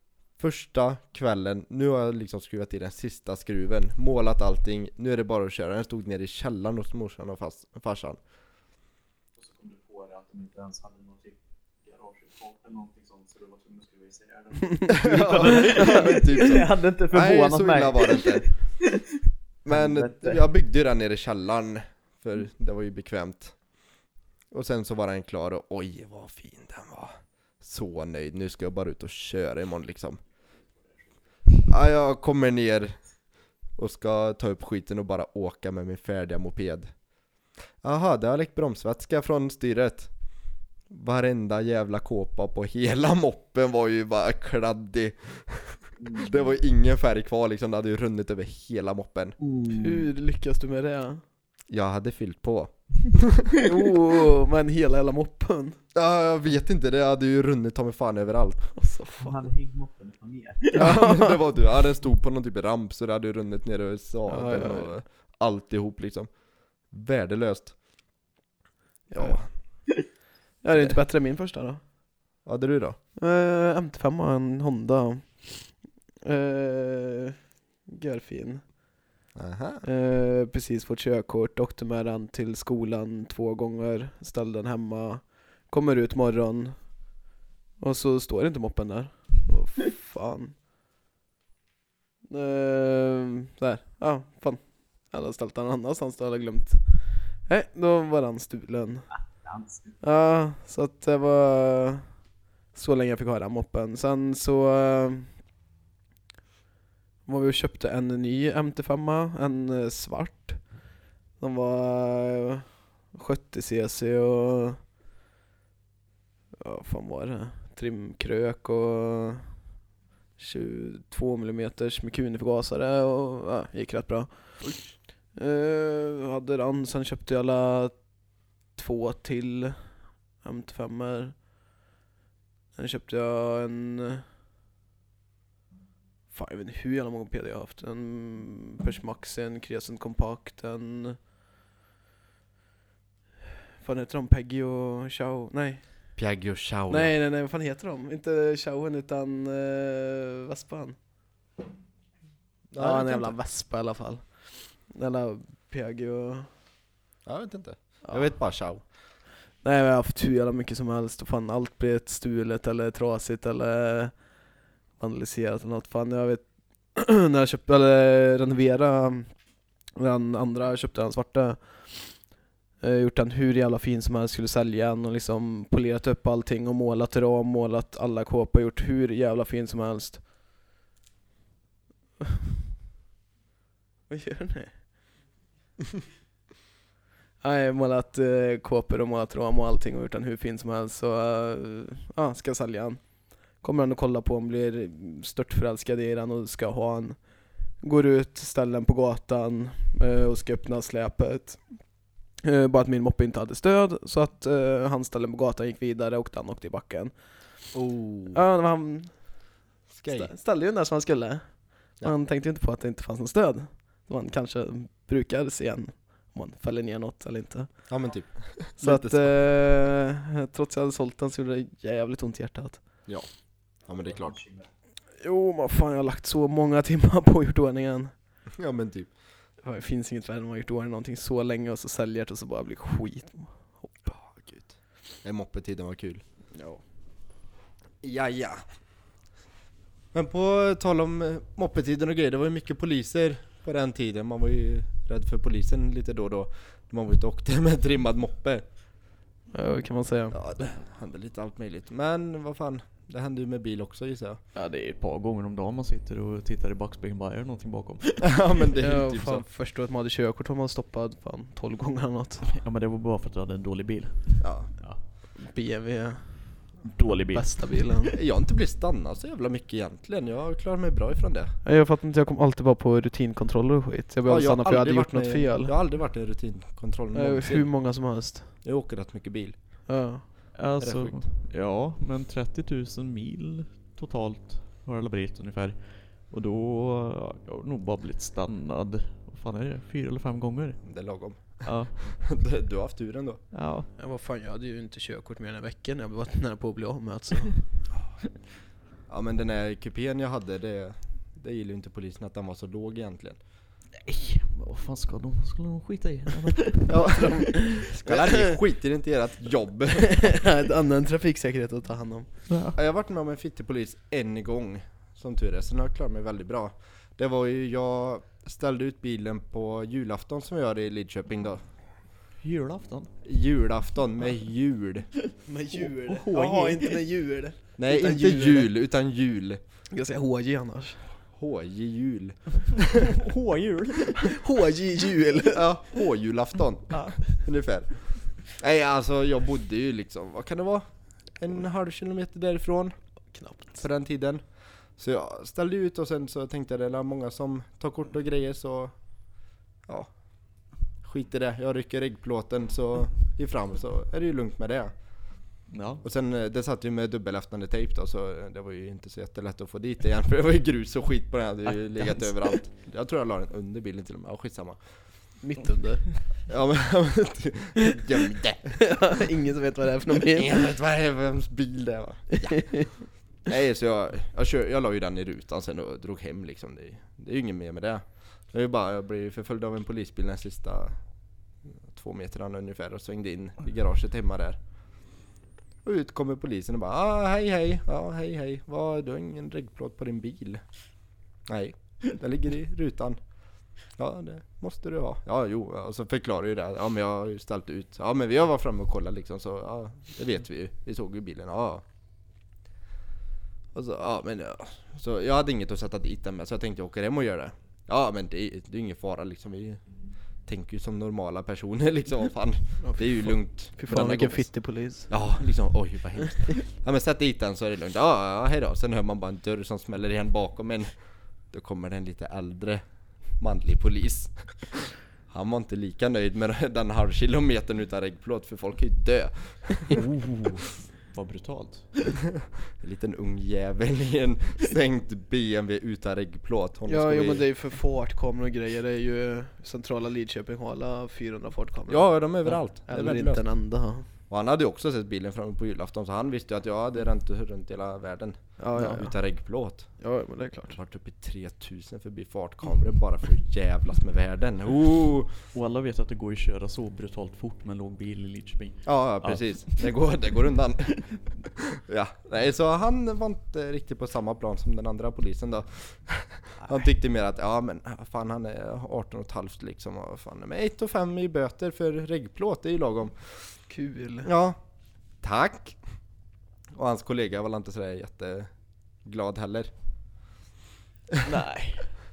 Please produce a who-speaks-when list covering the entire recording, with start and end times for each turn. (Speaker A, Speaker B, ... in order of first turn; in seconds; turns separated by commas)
Speaker A: 0.4-8.2, Speaker B: 9.5-11.3, Speaker B: 11.9-19.2, Speaker A: 14.9-18.5, Speaker A: 19.6-23.6, Speaker B: 19.7-20.4, Speaker A: 24.5-30.2, Speaker A: 31.6-33.0, Speaker A: 33.8-36.9, Speaker A: 37.8-40.1, Speaker A: 40.9-49.4, Speaker B: 46.0-46.4, Speaker B: 49.4-50.0, Speaker C: 49.7-51.2, Speaker A: 51.7-53.6, Speaker C: 53.6-55.8, Speaker A: 55.9-58.8, Speaker C: 58.8-59.4, Speaker B: 59.1-60.8, Speaker C: 60.7-61.4, Speaker A: 60.7-66.3, Speaker C: 64.3-64.9, Speaker A: 66.9-67.8, Speaker C: 69.1-69.4, Speaker A: 69.2-69.5, Speaker C: 70.6-71.8, Speaker A: 72.5-73.0, Speaker C: 73.2-77.4, Speaker C: 77.9-78.7, Speaker A: 79.3-79.8, Speaker C: 79.8-86.8, Speaker C: 87.8-90.5, Speaker C: 92.3-99.1, Speaker B: 99.5-99.8, Speaker C: 100.0-102.1, Speaker C: 102.7-105.3, Speaker C: 107.3-110.7, Speaker C: 111.4-114.8, Speaker C: 116.6-119.5, Speaker C: 120.4-124.3, Speaker C: 125.4-128.0, Speaker C: 128.8-129.8, Speaker C: 130.4-131.4, Speaker C: 132.8-134.2, Speaker C: 136.3-141.2, Speaker C: 143.8-145.8, Speaker A: 146.2-147.1, Speaker C: 146.9-151.0, Speaker A: 152.7-153.4, Speaker C: 152.8-156.5, Speaker A: 157.3-158.8, Speaker C: 158.1-158.3, Speaker C: 159.6-164.2, Speaker C: 165.0-169.3, Speaker C: 170.0-172.2, Speaker C: 172.8-180.2, Speaker C: 184.1-184.8, Speaker C: 187.4-193.0, Speaker C: 193.6-197.2, Speaker C: 197.8-201.6, Speaker C: 202.4-207.1, Speaker A: 207.7-208.4, Speaker C: 208.3-209.1, Speaker A: 209.9-210.3, Speaker C: 210.1-211.4, Speaker C: 212.0-217.7, Speaker A: 217.9-219.3, Speaker C: 218.8-222.8, Speaker A: 223.9-224.4, Speaker C: 225.2-228.1, Speaker A: 228.6-229.1, Speaker C: 229.6-234.1, Speaker A: 234.1-236.2, Speaker C: 236.6-236.8, Speaker A: 238.0-238.6, Speaker A: 240.1-248.6, Speaker C: 249.5-250.4, Speaker A: 250.3-254.4, Speaker B: 254.6-258.4, Speaker A: 258.2-259.4, Speaker C: 258.8-262.5, Speaker B: 262.5-265.0, Speaker A: 264.4-264.7, Speaker C: 265.4-266.3, Speaker B: 266.8-267.8, Speaker C: 267.3-268.1, Speaker A: 268.1-271.5, Speaker C: 271.6-275.7, Speaker A: 274.3-277.7, Speaker C: 277.1-278.5, Speaker A: 278.6-279.6, Speaker C: 279.9-280.2, Speaker B: 280.6-290.8, Speaker A: 280.8-281.2, Speaker A: 290.8-293.4, Speaker B: 291.6-292.1, Speaker B: 293.5-293.9, Speaker C: 294.0-297.6, Speaker A: 299.1-303.4, Speaker B: 304.0-307.1, Speaker A: 306.9-310.4, Speaker C: 307.0-308.6, Speaker C: 310.0-312.3, Speaker B: 312.5-312.8, Speaker A: 312.8-321.6, Speaker B: 322.4-323.1, Speaker A: 323.2-325.1, Speaker C: 325.5-328.7, Speaker B: 325.8-327.0, Speaker A: 327.8-329.6, Speaker C: 329.9-331.0, Speaker A: 331.4-333.1, Speaker B: 332.8-334.4, Speaker C: 334.2-335.6, Speaker A: 335.5-340.9, Speaker B: 336.9-337.2, Speaker A: 341.4-342.9, Speaker C: 343.3-343.8, Speaker A: 343.7-344.4, Speaker A: 345.0-348.9, Speaker A: 351.0-354.9, Speaker B: 355.7-356.0, Speaker A: 356.0-364.8, Speaker B: 361.7-362.4, Speaker C: 365.4-366.0, Speaker A: 366.5-368.8, Speaker C: 368.8-370.7, Speaker A: 370.3-372.9, Speaker C: 372.4-372.9, Speaker A: 373.4-381.0, Speaker A: 381.9-384.6, Speaker A: 385.8-390.6, Speaker A: 391.5-393.2, Speaker A: 394.0-401.8, Speaker A: 403.7-409.8, Speaker A: 410.5-414.5, Speaker C: 412.8-415.1, Speaker A: 415.1-420.9, Speaker A: 421.5-422.8, Speaker A: 423.4-430.6, Speaker B: 429.9-432.0, Speaker A: 432.8-437.4, Speaker C: 436.9-444.1, Speaker A: 441.9-443.4, Speaker A: 444.3-449.9, Speaker C: 448.6-449.1, Speaker C: 450.0-450.8, Speaker A: 450.7-455.3, Speaker B: 455.5-459.6, Speaker A: 458.9-473.3, Speaker C: 473.7-474.3, Speaker A: 474.2-474.6, Speaker A: 475.2-475.8, Speaker A: 476.8-478.5, Speaker A: 479.0-479.7, Speaker B: 481.2-481.9